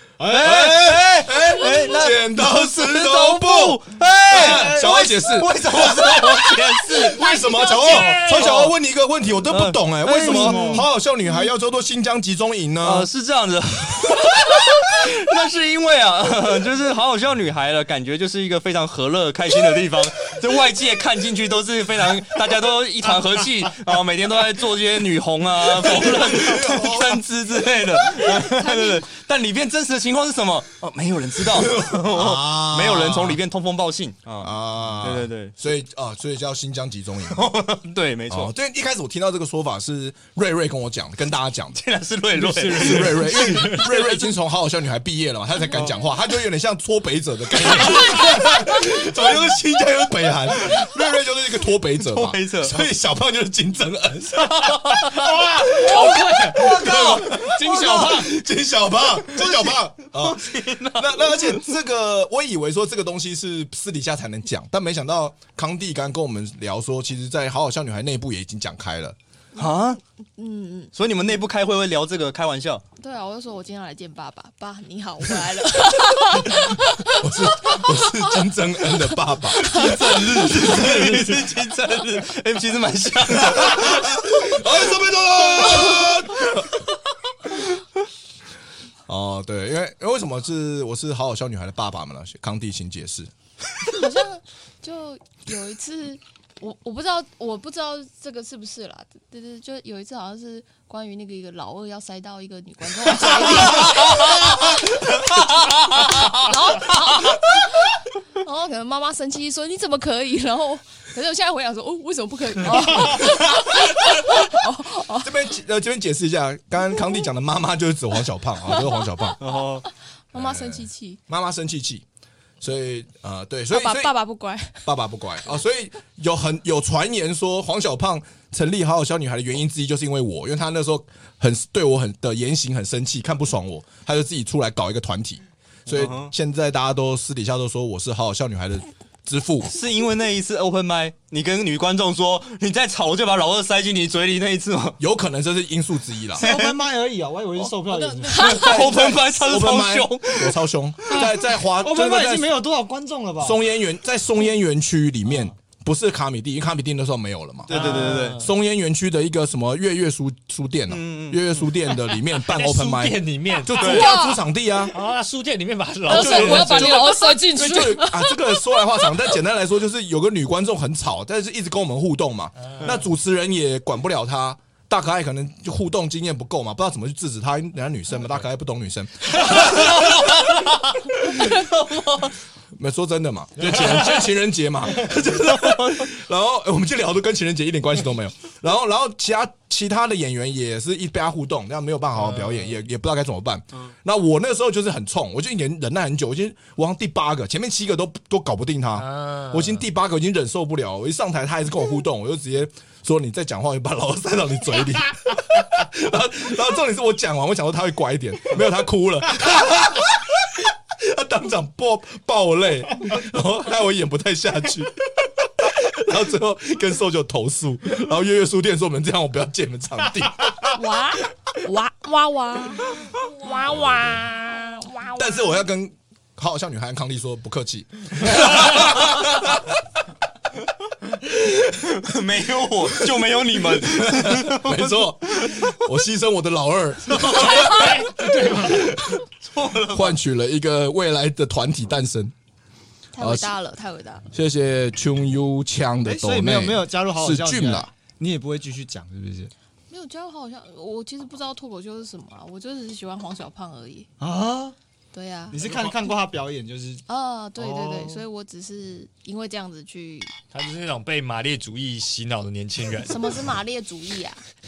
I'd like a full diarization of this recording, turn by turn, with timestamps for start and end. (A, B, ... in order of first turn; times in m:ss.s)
0:00.2-0:00.7 A
0:00.3-0:07.4 B
0:00.3-0:13.1 C
0:04.3-0:05.0 A
0:07.0-0:08.1 D
0:07.7-0:08.6 E
0:08.1-0:08.7 B
0:09.5-0:10.8 B
0:10.2-0:10.9 A
0:12.8-0:35.6 B
0:25.8-0:27.2 C
0:28.2-0:29.0 D
0:31.6-0:33.4 C
0:34.4-0:37.5 C
0:37.3-0:38.5 B
0:38.3-0:41.8 C
0:41.7-0:44.1 B
0:42.4-0:43.7 A
0:42.6-0:44.0 E
0:42.7-0:55.1 C
0:47.7-0:48.6 B
0:52.0-0:52.9 B
0:54.4-0:55.1 B
0:55.2-0:58.3 A
0:55.9-1:09.2 C
0:56.6-0:57.9 B
0:59.4-1:01.6 B
1:09.6-1:09.8 D
1:09.6-1:10.0 B
1:10.4-1:10.9 D
1:10.9-1:12.8 B
1:13.0-1:18.5 D
1:17.1-1:21.2 C
1:19.5-1:24.1 B
1:19.6-1:20.9 D
1:23.3-1:26.8 C
1:29.1-1:33.3 C
1:33.9-1:45.2 D
1:45.9-1:55.4 D
1:55.2-1:59.4 C
1:58.7-2:01.2 D
1:59.4-1:59.9 B
2:00.3-2:02.0 C
2:02.6-2:04.2 C
2:03.7-2:04.9 D
2:04.8-2:19.7 C
2:15.9-2:16.3 B
2:19.7-2:25.0 B
2:25.0-2:26.4 C
2:26.4-2:28.7 A
2:26.4-2:26.8 B
2:27.9-2:29.2 D
2:28.3-2:30.6 B
2:28.5-2:32.5 C
2:31.1-2:33.6 A
2:33.4-2:45.0 C
2:37.7-2:38.4 B
2:37.7-2:38.5 E
2:40.9-2:41.7 B
2:42.4-2:44.2 E
2:43.7-2:44.1 B
2:43.8-2:44.4 D
2:44.9-2:47.4 E
2:46.1-2:49.1 D
2:46.1-3:00.3 C
2:52.6-2:53.0 E
2:59.7-3:00.1 B
3:01.4-3:02.4 B
3:02.7-3:40.8 C
3:03.6-3:04.3 E
3:05.2-3:06.1 B
3:12.2-3:12.8 E
3:19.0-3:19.8 E
3:40.7-3:45.6 D
3:45.1-3:49.8 C
3:51.3-3:55.8 B
3:53.7-3:58.0 C
3:57.1-3:58.0 B
3:57.3-3:59.0 E
3:59.3-4:00.2 B
3:59.9-4:02.3 C
4:03.1-4:04.3 D
4:03.2-4:03.5 C
4:04.3-4:07.9 C
4:06.0-4:09.5 A
4:09.9-4:14.1 D
4:14.2-4:14.8 A
4:15.1-4:15.6 D
4:15.5-4:17.0 A
4:17.1-4:20.3 D
4:17.6-4:18.2 A
4:20.5-4:23.4 E
4:23.0-4:24.4 D